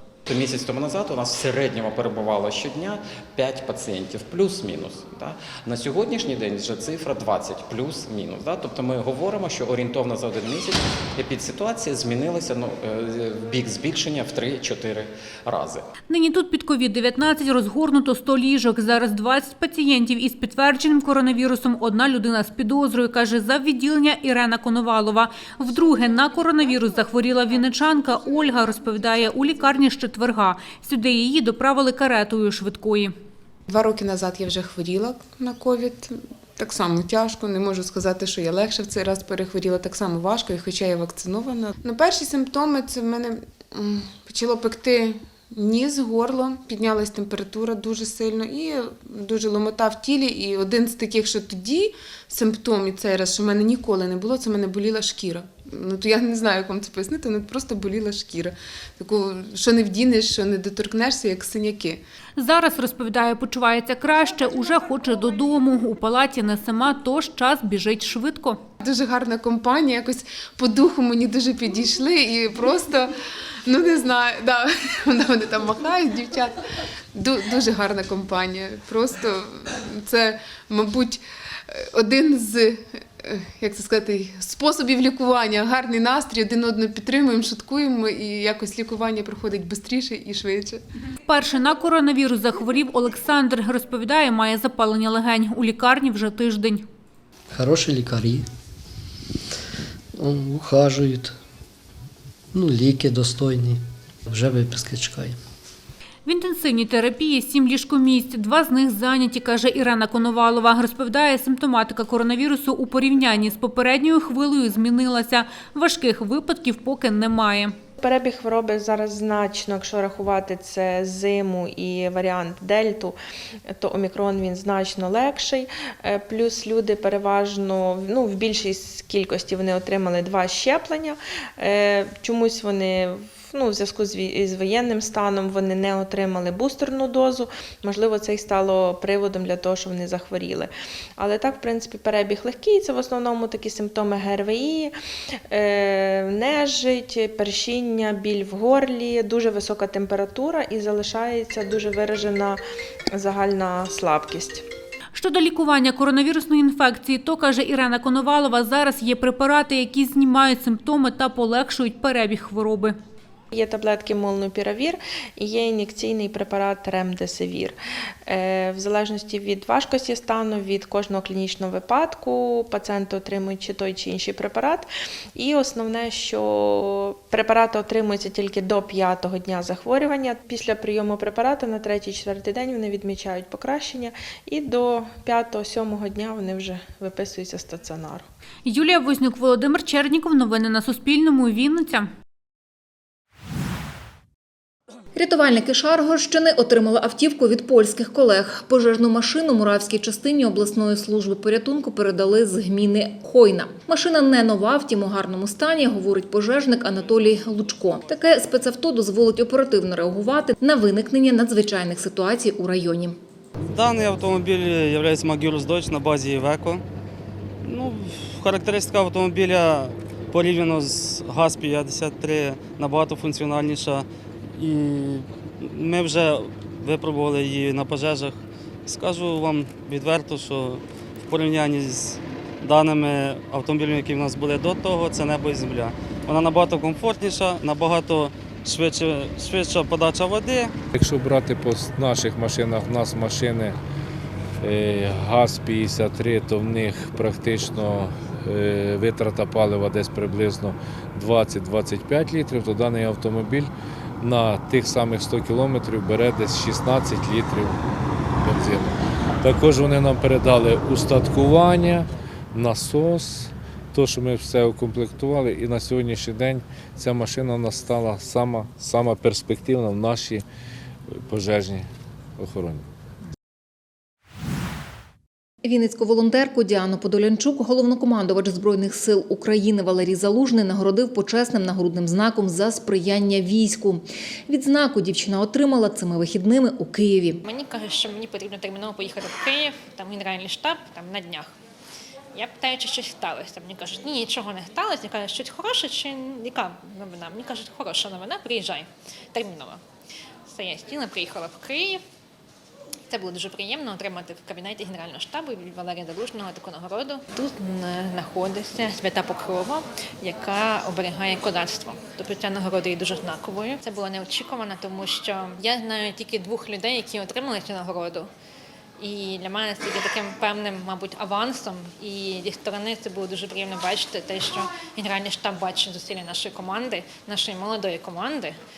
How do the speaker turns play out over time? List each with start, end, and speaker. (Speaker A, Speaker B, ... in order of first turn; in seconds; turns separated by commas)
Speaker A: 0.3-15.8, Speaker B: 16.1-33.1, Speaker C: 33.7-62.0, Speaker B: 62.4-68.6, Speaker C: 68.8-73.1, Speaker C: 73.6-76.6, Speaker C: 77.1-90.8, Speaker B: 91.2-96.8, Speaker D: 97.5-98.4, Speaker D: 100.2-101.3, Speaker D: 102.5-105.3, Speaker B: 106.2-117.7, Speaker E: 118.0-144.9, Speaker E: 145.5-152.6, Speaker E: 153.1-154.7, Speaker B: 155.1-162.9, Speaker E: 163.5-188.2, Speaker B: 188.7-192.1, Speaker F: 195.1-213.2, Speaker G: 213.7-216.8, Speaker G: 217.6-240.7, Speaker H: 240.9-243.8, Speaker H: 244.6-253.7, Speaker H: 254.2-257.8, Speaker H: 258.4-270.4, Speaker H: 271.3-271.9, Speaker H: 272.4-272.8, Speaker F: 275.6-287.4, Speaker I: 287.4-291.5, Speaker I: 292.3-299.8, Speaker I: 300.5-302.0, Speaker I: 303.1-318.3, Speaker I: 319.0-328.6